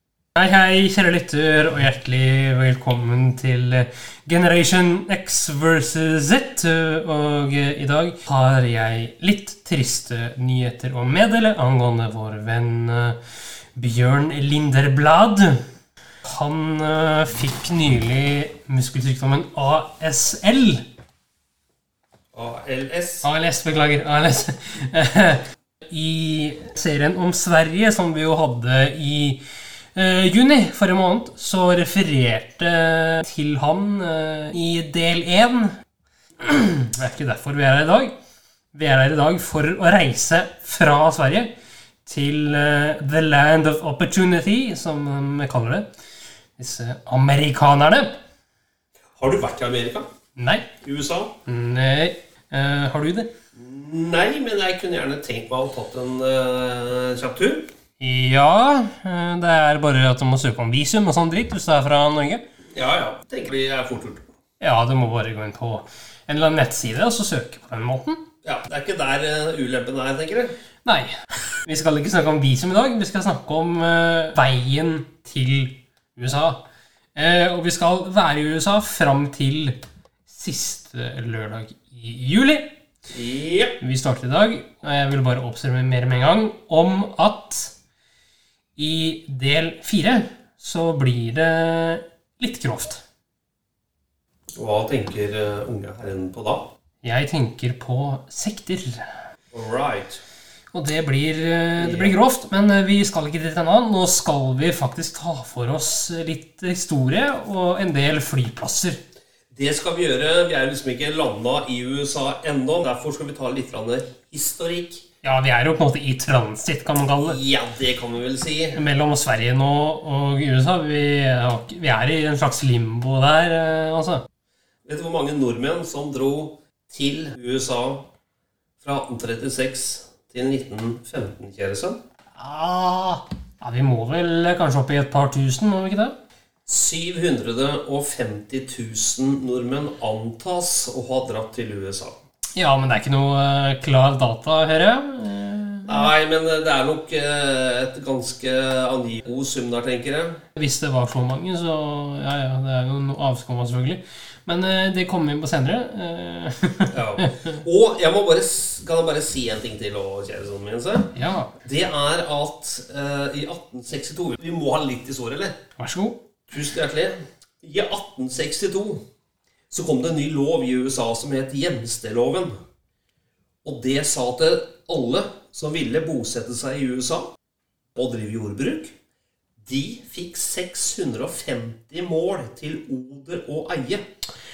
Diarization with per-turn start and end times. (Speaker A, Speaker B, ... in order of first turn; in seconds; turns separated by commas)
Speaker A: 0.4-13.2, Speaker A: 13.8-15.6, Speaker A: 16.2-20.9, Speaker B: 22.3-23.3, Speaker A: 23.2-29.4, Speaker A: 29.9-35.7, Speaker A: 36.4-38.1, Speaker A: 38.7-41.5, Speaker A: 42.1-45.9, Speaker A: 46.6-48.1, Speaker B: 49.2-50.1, Speaker A: 50.4-50.7, Speaker B: 50.8-51.3, Speaker A: 51.5-53.3, Speaker B: 53.6-57.7, Speaker A: 58.0-62.4, Speaker B: 62.7-64.2, Speaker A: 64.6-68.2, Speaker B: 68.4-70.5, Speaker A: 70.8-71.1, Speaker A: 71.7-76.6, Speaker A: 77.2-79.8, Speaker A: 80.3-82.7, Speaker B: 83.1-83.8, Speaker A: 83.8-87.7, Speaker A: 88.8-93.0, Speaker B: 94.6-96.7, Speaker A: 97.0-99.0, Speaker B: 99.5-100.2, Speaker A: 100.7-109.0, Speaker B: 101.8-102.2, Speaker B: 109.5-115.1, Speaker A: 115.2-117.4, Speaker B: 117.2-118.8, Speaker A: 118.8-124.2, Speaker B: 124.9-128.1, Speaker B: 128.8-132.0, Speaker A: 132.4-136.2, Speaker B: 136.7-142.2, Speaker A: 142.6-146.1, Speaker B: 145.9-150.4, Speaker A: 150.6-157.4, Speaker B: 156.9-161.1, Speaker A: 161.1-161.6, Speaker B: 161.7-165.6, Speaker A: 165.8-166.2, Speaker B: 166.5-169.0, Speaker B: 169.7-172.6, Speaker B: 173.7-177.2, Speaker B: 178.0-178.9, Speaker B: 179.7-184.0